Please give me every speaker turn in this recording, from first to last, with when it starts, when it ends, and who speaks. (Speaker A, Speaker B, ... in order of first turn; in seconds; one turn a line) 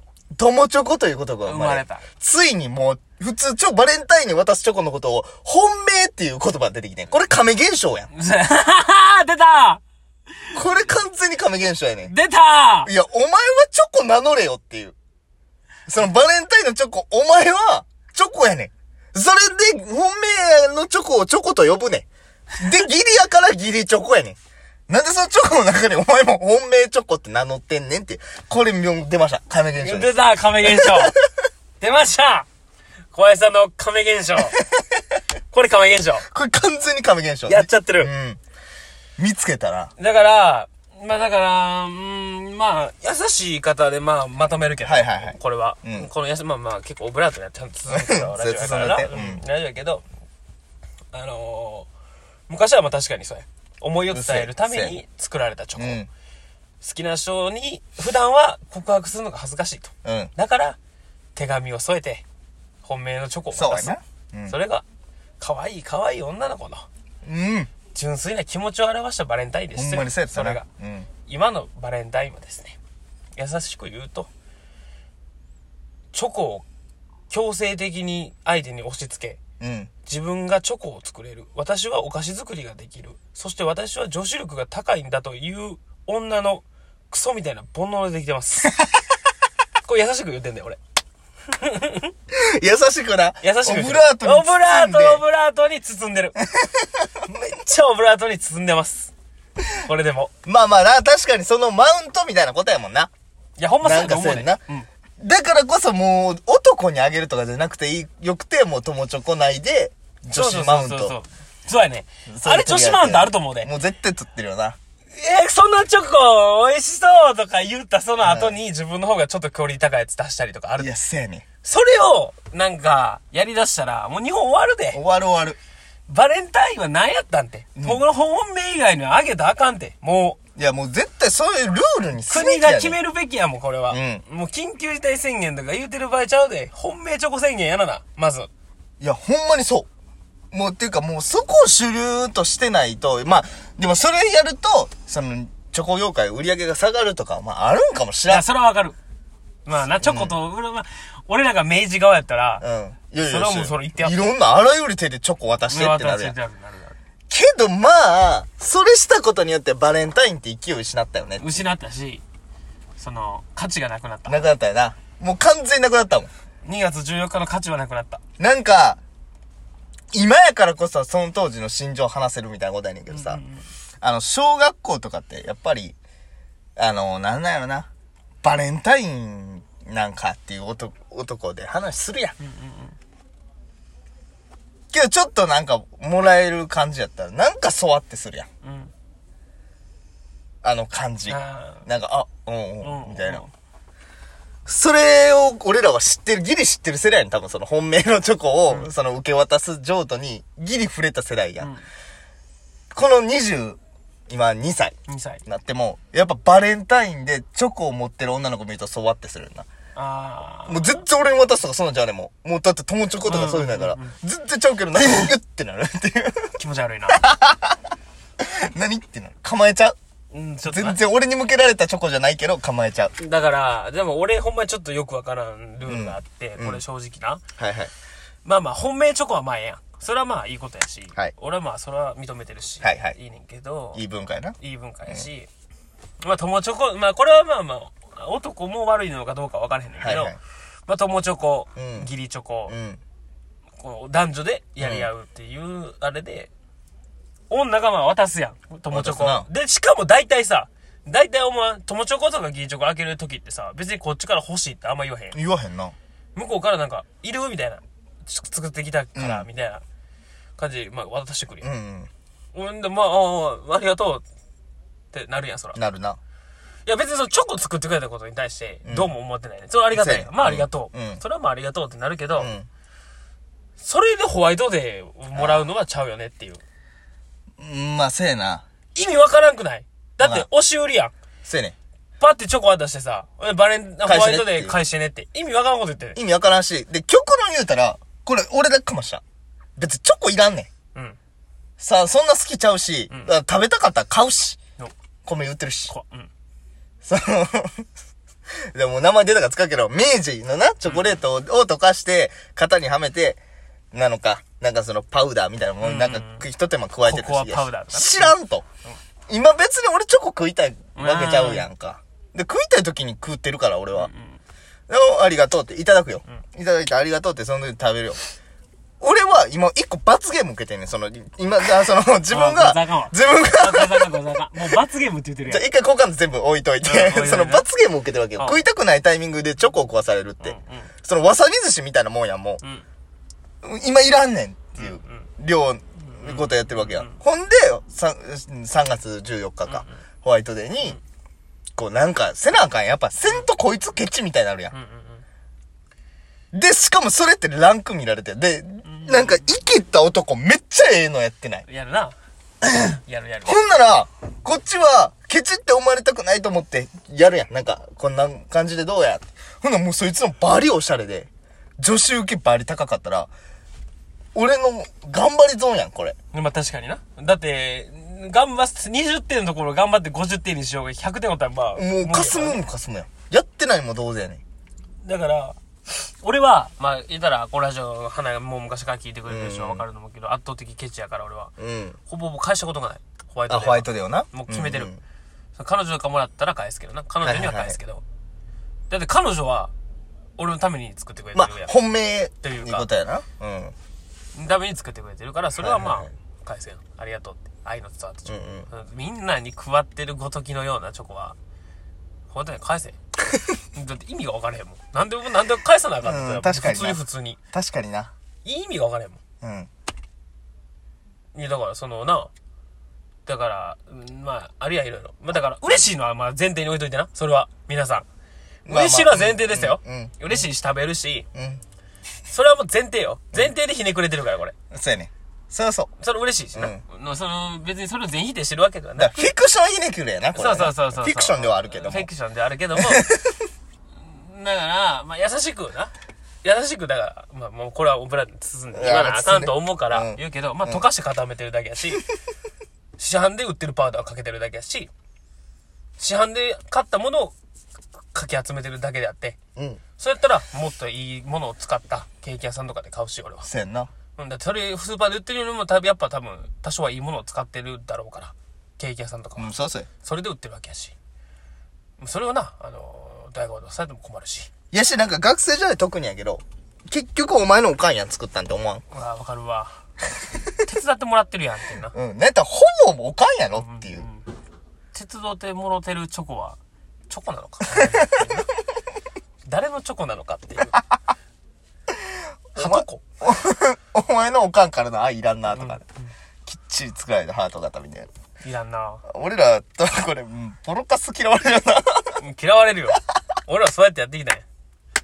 Speaker A: 0.4-8.1
Speaker B: 1.4-2.0
Speaker B: 8.1-9.8
Speaker A: 10.5-12.1
Speaker B: 12.1-12.9
Speaker A: 12.8-14.9
Speaker A: 15.9-22.1
Speaker A: 22.6-24.4
Speaker A: 24.9-31.3
Speaker B: 29.8-31.2
Speaker B: 31.8-32.5
Speaker B: 33.1-34.6
Speaker B: 35.5-36.3
Speaker A: 36.3-38.4
Speaker B: 37.5-38.1
Speaker A: 39.2-39.9
Speaker B: 40.0-50.0
Speaker A: 44.8-46.1
Speaker A: 47.9-49.4
Speaker B: 51.1-51.9
Speaker B: 52.5-56.0
Speaker A: 54.1-55.0
Speaker A: 55.8-56.1
Speaker B: 56.8-60.8
Speaker A: 60.0-60.3
Speaker B: 61.4-62.2
Speaker B: 62.8-64.0
Speaker A: 63.5-64.6
Speaker B: 64.5-64.8
Speaker B: 65.4-66.9
Speaker A: 67.2-67.7
Speaker B: 67.9-70.7
Speaker A: 69.7-71.1
Speaker B: 71.2-72.8
Speaker B: 73.4-74.3
Speaker B: 76.1-76.7
Speaker B: 77.3-79.4
Speaker A: 79.6-79.9
Speaker B: 80.1-88.8
Speaker B: 89.8-90.8
Speaker B: 91.5-92.1
Speaker A: 92.3-95.2
Speaker B: 93.4-96.4
Speaker A: 96.5-97.1
Speaker B: 97.3-99.1
Speaker B: 99.8-100.3
Speaker A: 100.5-103.1
Speaker B: 103.6-104.9
Speaker A: 103.8-104.6
Speaker A: 105.2-111.2
Speaker B: 110.3-113.7
Speaker A: 112.3-114.8
Speaker B: 115.2-120.9
Speaker A: 118.2-118.5
Speaker A: 120.8-121.4
Speaker B: 121.6-125.0
Speaker A: 124.9-125.6
Speaker B: 126.1-130.4
Speaker A: 127.8-128.0
Speaker A: 130.6-133.0
Speaker B: 132.3-138.5
Speaker A: 133.9-134.2
Speaker A: 139.0-139.9
Speaker A: 140.5-148.5
Speaker B: 148.3-149.0
Speaker B: 149.7-152.6
Speaker A: 150.0-150.4
Speaker A: 152.6-156.4
Speaker B: 153.2-154.3
Speaker B: 155.7-156.9
Speaker A: 157.3-161.5
Speaker B: 161.4-162.2
Speaker B: 163.0-164.4
Speaker A: 164.3-166.3
Speaker B: 166.7-168.2
Speaker A: 168.4-169.0
Speaker A: 170.1-173.4
Speaker B: 173.1-173.7
Speaker A: 174.0-176.0
Speaker A: 176.8-177.9
Speaker A: 178.4-182.3
Speaker B: 182.4-183.0
Speaker A: 184.9-188.5
Speaker B: 188.6-188.9
Speaker A: 190.6-193.4
Speaker B: 191.3-191.8
Speaker B: 192.8-193.5
Speaker A: 194.7-201.7
Speaker B: 201.6-201.8
Speaker A: 202.9-209.7
Speaker B: 205.1-205.4
Speaker B: 210.0-211.0
Speaker A: 210.7-216.5
Speaker B: 213.2-214.2
Speaker B: 216.6-217.2
Speaker A: 217.1-217.8
Speaker A: 218.4-220.0
Speaker B: 220.3-221.0
Speaker A: 220.7-223.1
Speaker B: 223.2-227.4
Speaker A: 225.8-226.8
Speaker A: 227.6-227.9
Speaker B: 228.4-234.0
Speaker A: 232.8-233.2
Speaker A: 233.9-235.3
Speaker B: 234.6-235.5
Speaker B: 236.2-242.8
Speaker A: 240.0-240.4
Speaker A: 241.8-242.1
Speaker A: 242.7-243.0
Speaker B: 243.8-246.5
Speaker A: 244.8-245.1
Speaker B: 247.5-255.4
Speaker A: 248.9-249.5
Speaker A: 255.3-255.9
Speaker B: 256.4-259.8
Speaker A: 259.1-259.5
Speaker B: 260.6-261.7
Speaker A: 261.6-262.1
Speaker B: 262.5-264.2
Speaker B: 265.1-265.8
Speaker A: 265.8-266.2
Speaker B: 266.9-272.5
Speaker A: 268.9-269.1
Speaker A: 269.9-271.2
Speaker A: 272.4-272.7
Speaker B: 273.8-276.6
Speaker A: 275.3-275.6
Speaker A: 277.6-278.6
Speaker B: 278.9-281.1
Speaker A: 280.2-280.5
Speaker A: 281.4-281.8
Speaker B: 282.2-286.2
Speaker A: 284.1-284.8
Speaker A: 286.1-289.2
Speaker A: 289.8-290.7
Speaker A: 291.8-294.6
Speaker A: 295.2-295.9
Speaker B: 295.9-296.3
Speaker A: 297.0-297.9
Speaker A: 298.7-303.4
Speaker B: 300.9-301.2
Speaker A: 303.9-308.6
Speaker B: 305.8-306.4
Speaker B: 307.1-308.4
Speaker A: 309.3-314.1
Speaker B: 310.9-311.7
Speaker B: 314.0-314.4
Speaker A: 314.9-318.2
Speaker A: 319.0-324.1
Speaker B: 322.3-325.7
Speaker A: 325.5-332.6
Speaker B: 326.8-327.7
Speaker B: 330.4-330.9
Speaker A: 333.6-341.0
Speaker B: 334.8-335.3
Speaker B: 336.1-337.2
Speaker B: 339.7-340.0
Speaker A: 341.8-344.7
Speaker B: 344.7-345.2
Speaker A: 346.5-351.6
Speaker B: 348.9-349.4
Speaker B: 351.7-352.1
Speaker B: 352.8-353.6
Speaker A: 353.4-363.3
Speaker A: 364.4-366.2
Speaker B: 366.3-372.6
Speaker A: 371.8-374.4
Speaker B: 375.0-381.5
Speaker A: 379.3-379.9
Speaker A: 381.6-382.0
Speaker B: 382.1-384.9
Speaker A: 383.5-385.0
Speaker B: 385.6-388.0
Speaker A: 387.2-387.8
Speaker B: 388.9-389.7
Speaker B: 390.4-391.7
Speaker A: 391.4-393.8
Speaker B: 392.4-392.9
Speaker B: 394.4-401.4
Speaker A: 395.6-396.1
Speaker A: 398.3-398.7
Speaker B: 402.3-403.0
Speaker B: 403.7-407.4
Speaker A: 406.0-407.0
Speaker A: 407.5-408.1
Speaker B: 408.4-409.2
Speaker A: 409.4-409.7
Speaker B: 411.4-412.3
Speaker B: 413.3-418.1
Speaker A: 418.7-420.5
Speaker B: 418.7-421.3
Speaker A: 421.3-421.6
Speaker B: 422.3-424.5
Speaker A: 424.7-425.9
Speaker B: 426.0-429.3
Speaker A: 426.6-426.8
Speaker A: 429.0-432.1
Speaker B: 430.4-433.1
Speaker A: 432.8-433.4
Speaker B: 434.0-435.9
Speaker B: 436.4-442.0
Speaker A: 438.7-440.9
Speaker B: 443.0-444.9
Speaker B: 446.0-447.4
Speaker B: 448.1-449.4
Speaker A: 449.6-449.8
Speaker B: 450.0-453.5
Speaker A: 453.4-453.9
Speaker B: 454.2-459.5
Speaker A: 459.4-459.9
Speaker B: 460.0-460.9
Speaker B: 462.0-464.5
Speaker A: 464.7-468.8
Speaker B: 468.9-469.8
Speaker B: 470.6-471.9
Speaker A: 471.9-474.1
Speaker B: 473.6-474.3
Speaker B: 474.9-476.6
Speaker B: 477.1-478.5
Speaker A: 477.8-478.3
Speaker B: 479.5-480.8
Speaker B: 482.6-483.0
Speaker A: 482.6-485.8
Speaker B: 485.5-486.1
Speaker A: 486.5-488.1
Speaker B: 488.4-489.0
Speaker A: 489.1-492.2
Speaker B: 492.2-494.4